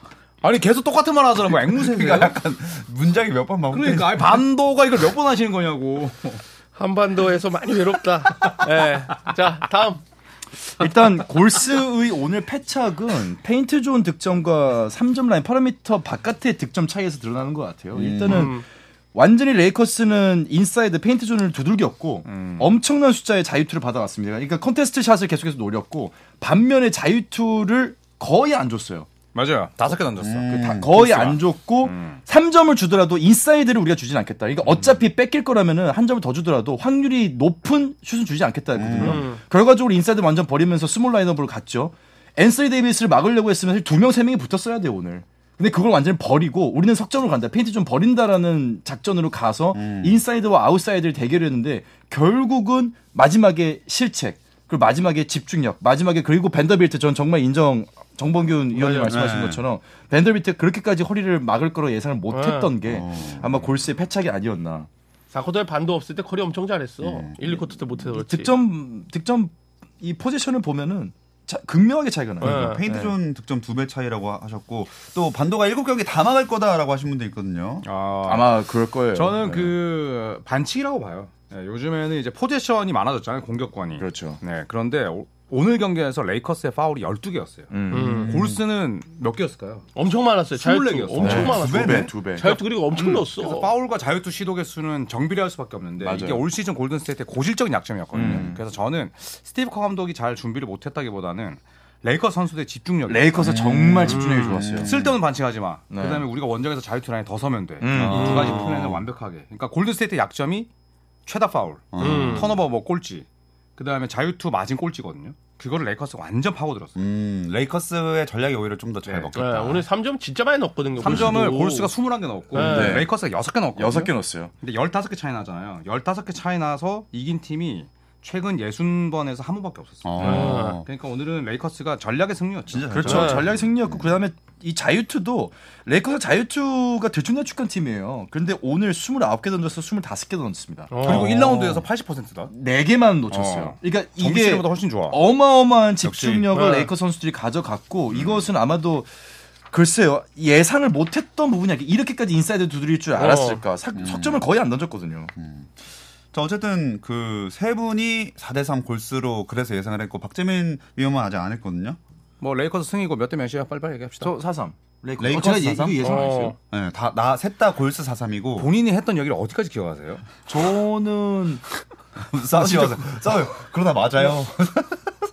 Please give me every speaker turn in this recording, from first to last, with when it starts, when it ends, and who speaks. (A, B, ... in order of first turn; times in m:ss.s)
0:00.4-0:02.4 A
0:01.7-0:04.4 B
0:03.7-0:06.4 A
0:06.8-0:10.0 C
0:10.8-0:18.6 D
0:17.9-0:18.5 B
0:18.3-0:18.6 C
0:19.1-0:29.1 D
0:22.2-0:22.8 A
0:29.3-0:32.2 A
0:30.2-0:30.9 B
0:30.5-1:04.9 D
0:38.7-0:39.2 B
0:39.0-0:39.4 C
0:49.7-0:50.2 B
0:58.7-0:59.4 C
0:59.0-0:59.6 B
1:02.3-1:02.7 C
1:02.8-1:03.7 B
1:05.3-1:08.5 C
1:07.0-1:07.6 B
1:08.1-1:13.2 D
1:12.4-1:12.8 C
1:12.4-1:17.9 B
1:17.8-1:29.9 A
1:18.2-1:19.7 D
1:24.0-1:24.4 D
1:27.7-1:28.3 D
1:27.9-1:28.4 C
1:28.0-1:28.6 B
1:30.0-1:33.7 C
1:30.5-1:43.5 A
1:31.2-1:32.5 D
1:31.4-1:32.1 B
1:36.0-1:36.4 D
1:38.1-1:38.6 D
1:43.1-1:44.9 D
1:43.4-1:45.2 B
1:44.1-1:44.7 C
1:44.8-1:50.7 A
1:45.9-1:46.3 D
1:47.8-1:48.6 D
1:47.9-1:49.0 B
1:48.2-1:48.5 C
1:51.3-1:53.3 A
1:51.9-1:52.6 B
1:52.0-1:52.5 C
1:53.8-1:57.0 A
1:57.0-1:59.9 B
1:59.1-1:59.3 A
1:59.4-2:01.9 C
2:01.0-2:13.4 A
2:01.0-2:01.4 B
2:02.5-2:03.0 C
2:02.5-2:03.1 D
2:03.8-2:04.5 D
2:10.0-2:10.8 B
2:10.2-2:10.8 C
2:12.7-2:14.0 B
2:12.9-2:21.8 D
2:13.1-2:13.4 C
2:20.9-2:21.4 C
2:21.0-2:22.5 A
2:22.5-2:29.1 D
2:23.3-2:25.2 A
2:26.1-2:26.4 A
2:26.5-2:26.9 C
2:29.7-2:35.3 D
2:33.2-2:33.6 C
2:34.0-2:34.4 B
2:35.4-2:35.7 B
2:36.3-2:42.0 B
2:42.4-2:44.3 A
2:44.2-2:46.5 D
2:45.2-2:46.2 B
2:46.0-2:46.6 C
2:46.7-2:48.7 B
2:48.6-2:50.3 A
2:50.5-2:51.6 D
2:52.3-2:55.1 B
2:52.5-2:53.4 D